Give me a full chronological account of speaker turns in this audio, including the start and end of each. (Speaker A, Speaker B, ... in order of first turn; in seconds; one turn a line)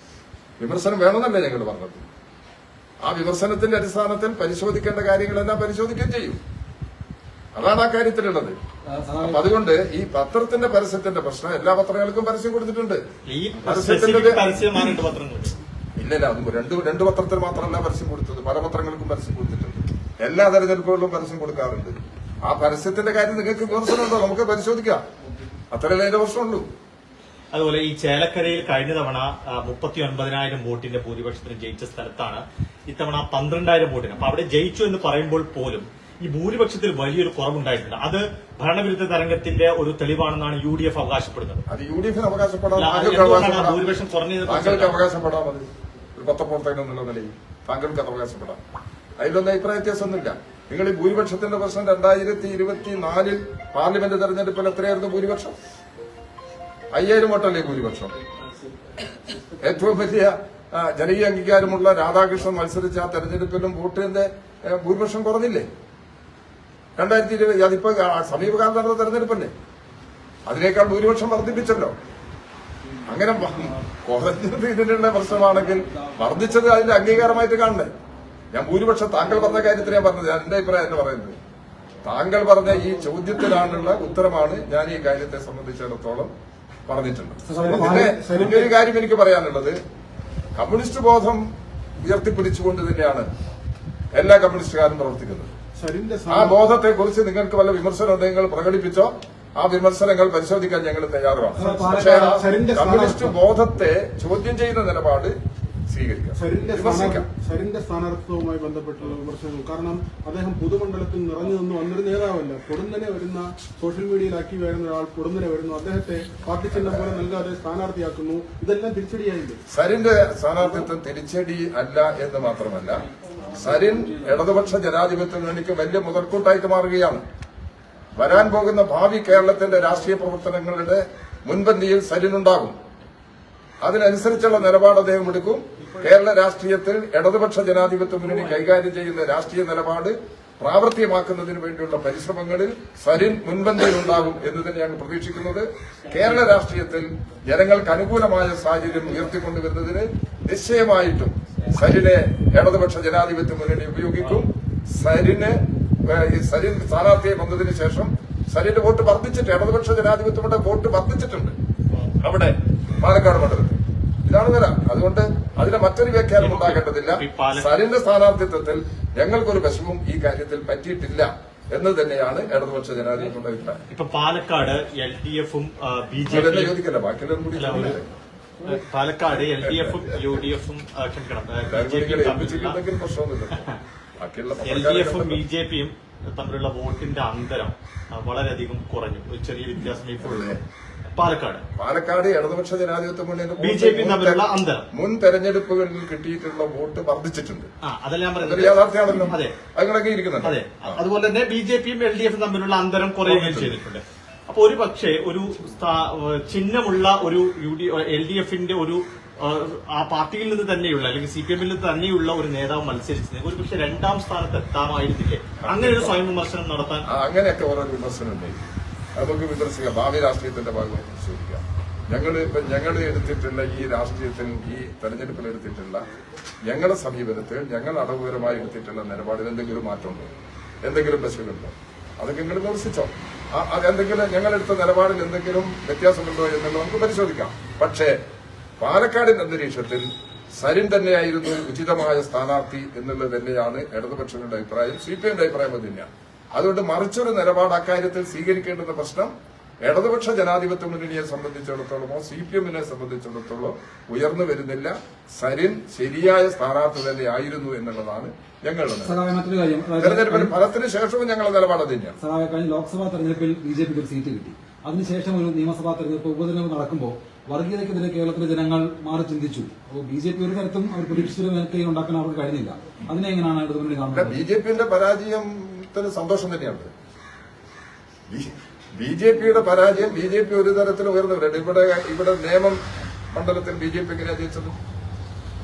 Speaker A: 0.6-2.0
Speaker A: 3.0-6.4
Speaker A: 7.5-8.5
Speaker B: 8.9-9.4
Speaker A: 9.2-13.0
Speaker C: 13.2-15.6
Speaker A: 13.6-14.4
Speaker A: 16.0-25.0
Speaker A: 25.7-26.7
Speaker C: 27.5-41.6
Speaker A: 41.7-45.6
Speaker C: 42.7-45.0
Speaker A: 46.1-48.6
Speaker A: 49.2-55.5
Speaker A: 56.9-58.1
Speaker A: 59.6-65.7
Speaker A: 67.0-69.5
Speaker A: 70.5-71.9
Speaker A: 73.1-77.9
Speaker A: 78.5-81.4
Speaker A: 82.0-86.3
Speaker A: 86.9-89.8
Speaker B: 87.4-88.2
Speaker D: 87.6-88.7
Speaker A: 90.5-91.4
Speaker A: 92.0-93.3
Speaker A: 94.1-95.5
Speaker D: 95.8-96.6
Speaker A: 96.3-105.3
Speaker B: 101.6-102.4
Speaker D: 101.6-103.3
Speaker A: 105.9-107.2
Speaker D: 106.3-119.6
Speaker A: 116.7-117.2
Speaker A: 119.7-127.2
Speaker A: 128.2-132.8
Speaker A: 133.8-161.5
Speaker A: 162.2-173.8
Speaker C: 166.4-167.7
Speaker C: 173.9-176.8
Speaker A: 176.3-178.1
Speaker C: 177.5-178.0
Speaker C: 178.6-182.8
Speaker A: 179.6-180.1
Speaker A: 181.7-185.4
Speaker C: 184.6-190.6
Speaker A: 190.2-190.6
Speaker C: 191.1-191.6
Speaker A: 191.8-197.7
Speaker C: 193.6-194.8
Speaker C: 197.8-199.5
Speaker A: 198.4-201.0
Speaker C: 200.4-217.1
Speaker A: 203.2-203.8
Speaker A: 215.6-216.2
Speaker A: 217.1-226.0
Speaker A: 226.7-230.3
Speaker A: 230.8-238.1
Speaker A: 238.8-249.3
Speaker A: 249.8-259.2
Speaker B: 259.0-260.5
Speaker A: 260.0-262.2
Speaker B: 262.2-274.4
Speaker A: 274.1-276.9
Speaker A: 278.3-282.8
Speaker A: 283.3-284.7